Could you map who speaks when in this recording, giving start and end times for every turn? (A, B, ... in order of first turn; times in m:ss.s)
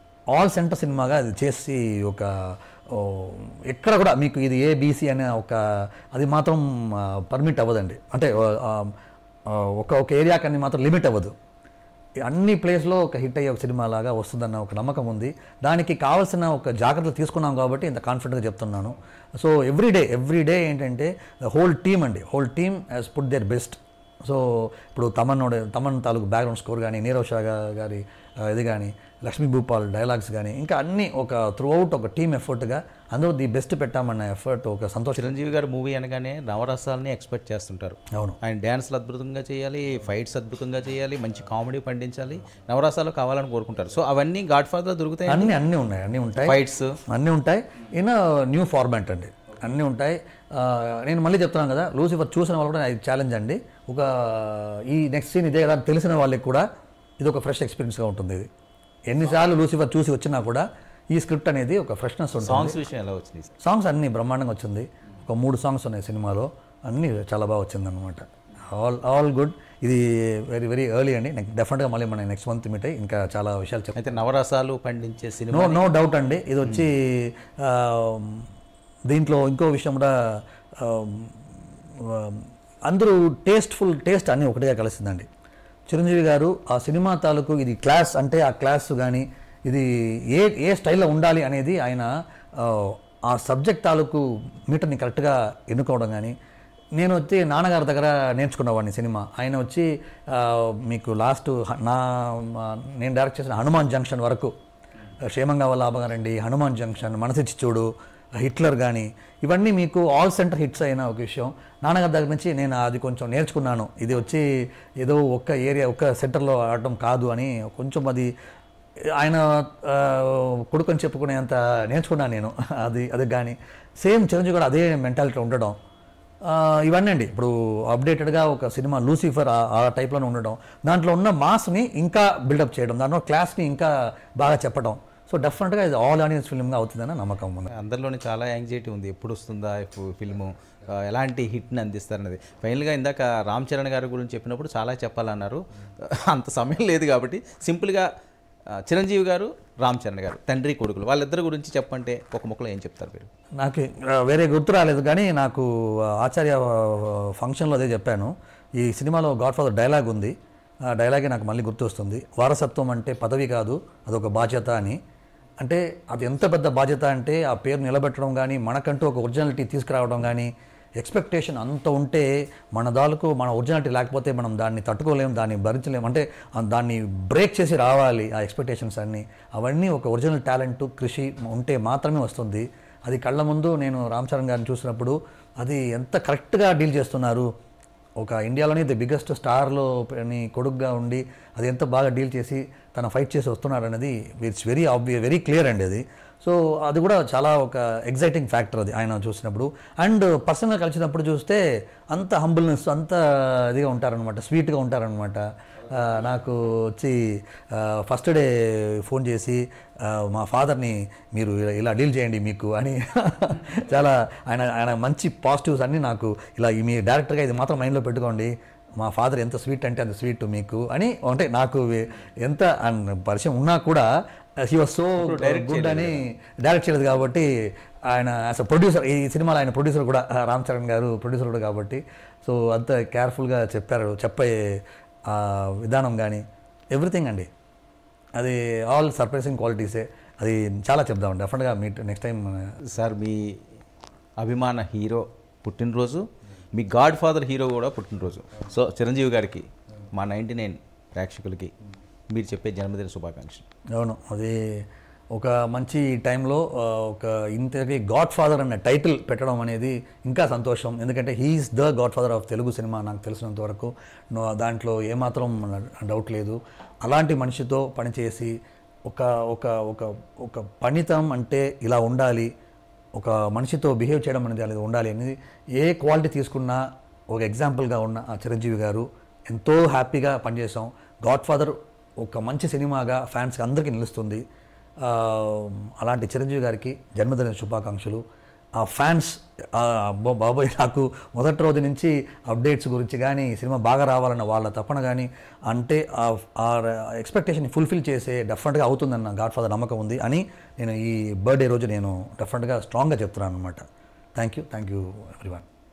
0:00.3-0:08.9 A
0:09.5-0:11.3 A
0:12.2-0:35.3 A
0:35.2-0:45.6 B
0:38.1-0:38.4 A
0:45.3-0:56.6 A
0:46.4-0:47.0 B
0:57.2-0:58.5 A
0:59.1-1:02.8 A
1:02.4-1:03.5 B
1:03.6-1:14.0 A
1:14.0-1:15.9 B
1:15.5-1:18.5 A
1:19.1-1:20.2 A
1:20.8-1:21.4 A
1:22.0-1:25.2 A
1:25.9-1:36.3 A
1:37.0-1:44.5 A
1:45.3-1:47.9 A
1:48.4-1:54.4 A
1:55.0-1:58.3 A
1:59.2-2:05.8 A
2:06.4-2:17.7 A
2:17.7-2:28.1 B
2:28.8-2:33.3 B
2:33.6-2:40.3 A
2:40.9-2:45.0 A
2:45.6-3:07.5 A
3:08.2-3:44.1 A
3:44.6-3:47.5 A
3:45.2-3:46.2 B
3:48.1-3:57.5 A
3:58.4-4:02.7 A
4:02.9-4:03.6 B
4:04.4-4:11.7 B
4:12.3-4:13.6 B
4:14.0-4:28.5 A
4:29.1-4:32.5 A
4:33.1-4:44.4 A
4:45.0-4:48.2 A
4:48.8-5:03.8 A
5:04.4-5:05.6 A